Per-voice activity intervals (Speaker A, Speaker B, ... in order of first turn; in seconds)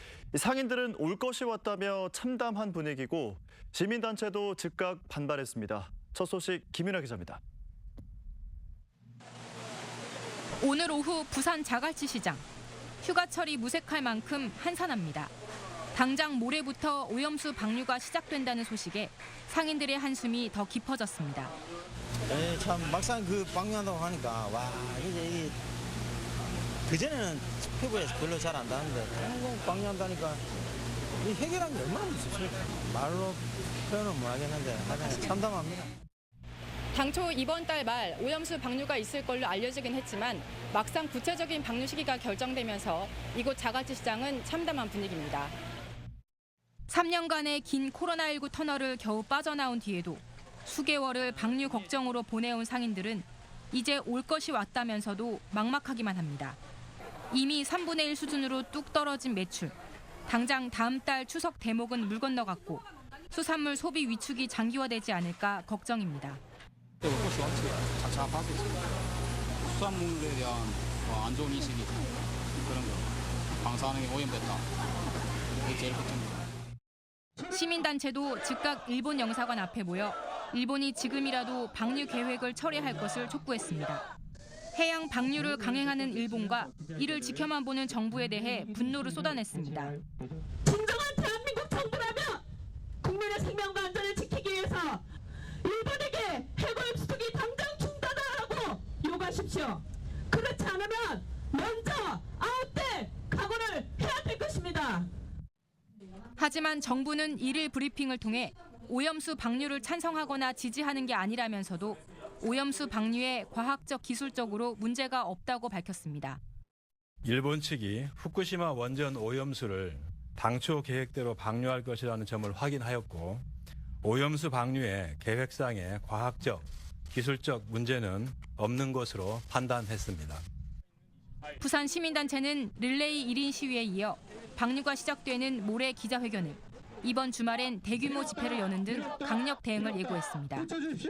Speaker A: 0.3-7.4
Speaker B: 10.6-12.4, 13.0-15.3, 15.9-21.5, 36.9-45.5, 46.9-56.6, 57.3-59.7, 60.3-66.4, 77.5-84.0, 84.7-90.0, 106.3-116.4, 131.6-140.7
Speaker C: 22.3-25.6, 26.9-30.4, 31.2-35.9
Speaker D: 67.0-68.6, 69.7-71.9, 72.7-73.0, 73.6-74.6, 75.7-76.4
Speaker E: 90.6-92.4, 93.0-95.0, 95.6-105.1
Speaker F: 117.2-123.4, 124.0-130.4